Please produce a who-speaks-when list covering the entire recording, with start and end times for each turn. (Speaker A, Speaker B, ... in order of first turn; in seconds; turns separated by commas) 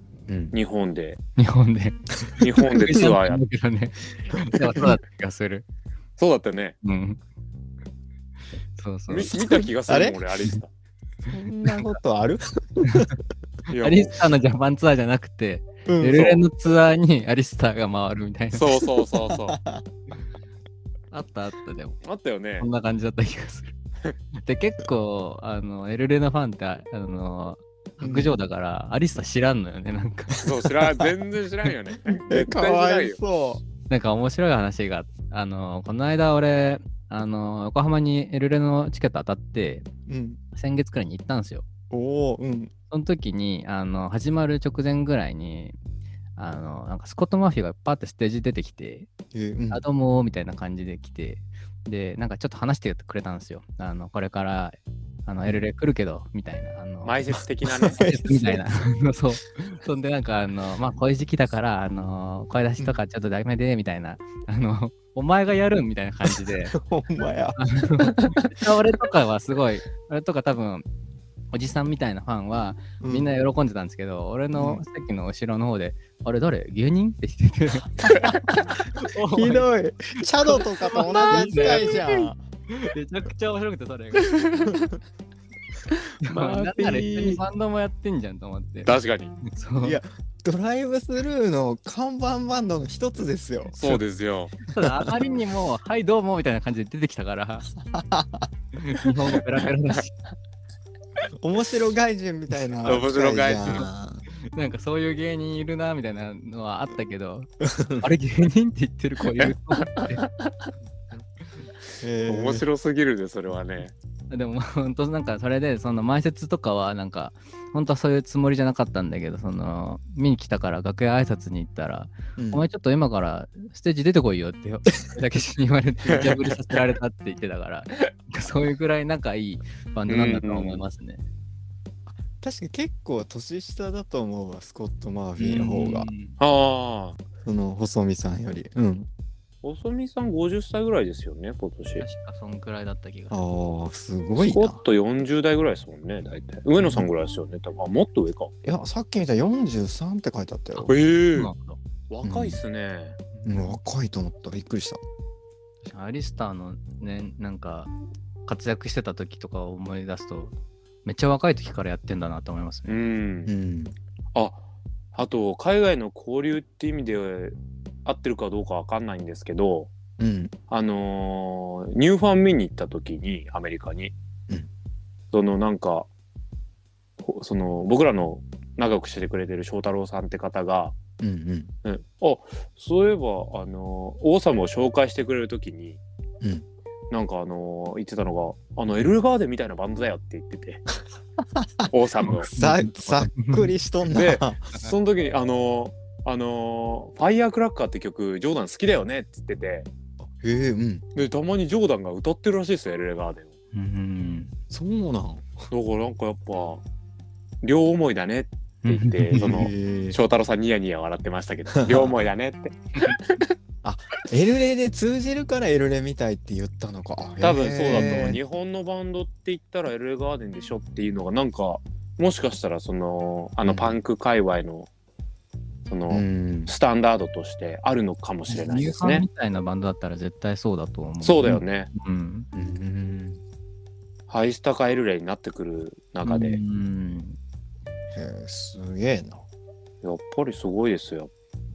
Speaker A: 0.3-0.6, Speaker B: 0.5-1.2, Speaker C: 1.4-5.7, Speaker B: 2.4-3.4, Speaker B: 6.2-6.8, Speaker C: 6.8-7.2, Speaker C: 8.8-9.3, Speaker B: 9.1-10.7, Speaker A: 9.3-10.4, Speaker C: 11.3-11.8, Speaker A: 11.3-13.2, Speaker B: 13.7-14.1, Speaker C: 13.8-18.8, Speaker A: 15.9-16.3, Speaker B: 16.1-16.4, Speaker B: 18.5-19.6, Speaker A: 19.3-19.9, Speaker C: 21.1-22.0, Speaker B: 22.0-22.7, Speaker C: 22.6-23.7, Speaker C: 24.4-30.5, Speaker A: 28.0-28.4, Speaker B: 30.4-33.2, Speaker A: 32.3-33.6, Speaker C: 33.9-39.9, Speaker A: 40.1-40.4, Speaker C: 40.5-41.6, Speaker A: 41.9-42.7, Speaker C: 42.9-45.8, Speaker C: 46.4-49.1, Speaker A: 49.3-49.8, Speaker C: 49.7-57.2, Speaker B: 57.0-58.1, Speaker A: 57.8-58.6, Speaker C: 58.0-66.8, Speaker A: 66.3-68.6, Speaker C: 67.6-70.8, Speaker C: 71.5-79.7, Speaker A: 73.0-73.3, Speaker A: 74.6-74.8, Speaker B: 78.0-78.6, Speaker A: 79.3-82.4, Speaker C: 80.4-82.0, Speaker B: 81.1-82.2, Speaker C: 82.7-84.8, Speaker B: 86.2-87.4, Speaker C: 86.2-90.0, Speaker B: 88.9-89.4, Speaker A: 89.8-94.0, Speaker B: 93.8-94.6, Speaker C: 94.6-97.7, Speaker A: 94.8-95.1, Speaker A: 97.9-98.5, Speaker C: 98.8-100.1, Speaker A: 101.4-104.2, Speaker B: 102.8-103.9, Speaker C: 104.5-110.2, Speaker A: 107.7-108.1, Speaker A: 112.0-112.7, Speaker B: 112.2-113.9, Speaker C: 114.3-131.2, Speaker A: 122.4-122.6, Speaker B: 130.1-130.8, Speaker A: 132.1-136.1, Speaker C: 135.4-136.4, Speaker B: 136.4-137.2, Speaker A: 137.4-139.1, Speaker B: 139.6-142.1, Speaker C: 142.0-143.4, Speaker A: 143.3-144.8, Speaker B: 144.4-148.5, Speaker A: 148.6-150.9, Speaker C: 150.8-151.8, Speaker B: 150.9-151.5, Speaker B: 152.1-153.2, Speaker A: 152.2-152.6, Speaker C: 153.3-153.7, Speaker A: 153.4-155.0, Speaker C: 155.8-157.9, Speaker C: 158.5-160.5, Speaker C: 161.1-163.0, Speaker B: 162.9-163.5, Speaker A: 163.5-163.9, Speaker B: 164.3-164.6, Speaker B: 165.1-169.9, Speaker A: 170.2-170.5, Speaker B: 170.7-174.1, Speaker B: 175.3-176.1, Speaker B: 177.2-180.9, Speaker A: 181.2-181.7, Speaker B: 181.8-186.0, Speaker B: 187.1-190.9, Speaker A: 191.6-194.6, Speaker B: 191.9-192.5, Speaker C: 192.6-193.7, Speaker B: 194.1-199.9, Speaker A: 200.2-201.1, Speaker B: 201.1-203.5, Speaker C: 203.7-204.5, Speaker A: 204.7-205.6, Speaker B: 205.7-206.8, Speaker B: 207.6-213.5, Speaker C: 208.8-209.4, Speaker A: 209.3-210.2, Speaker A: 211.8-212.1, Speaker A: 213.8-218.4, Speaker B: 217.4-224.9, Speaker A: 223.6-224.0, Speaker B: 225.9-229.3, Speaker A: 226.1-226.7, Speaker C: 228.5-232.5, Speaker B: 231.2-231.9, Speaker A: 232.5-233.4, Speaker B: 234.3-236.6, Speaker C: 236.2-237.4, Speaker A: 238.1-239.5, Speaker B: 240.0-241.3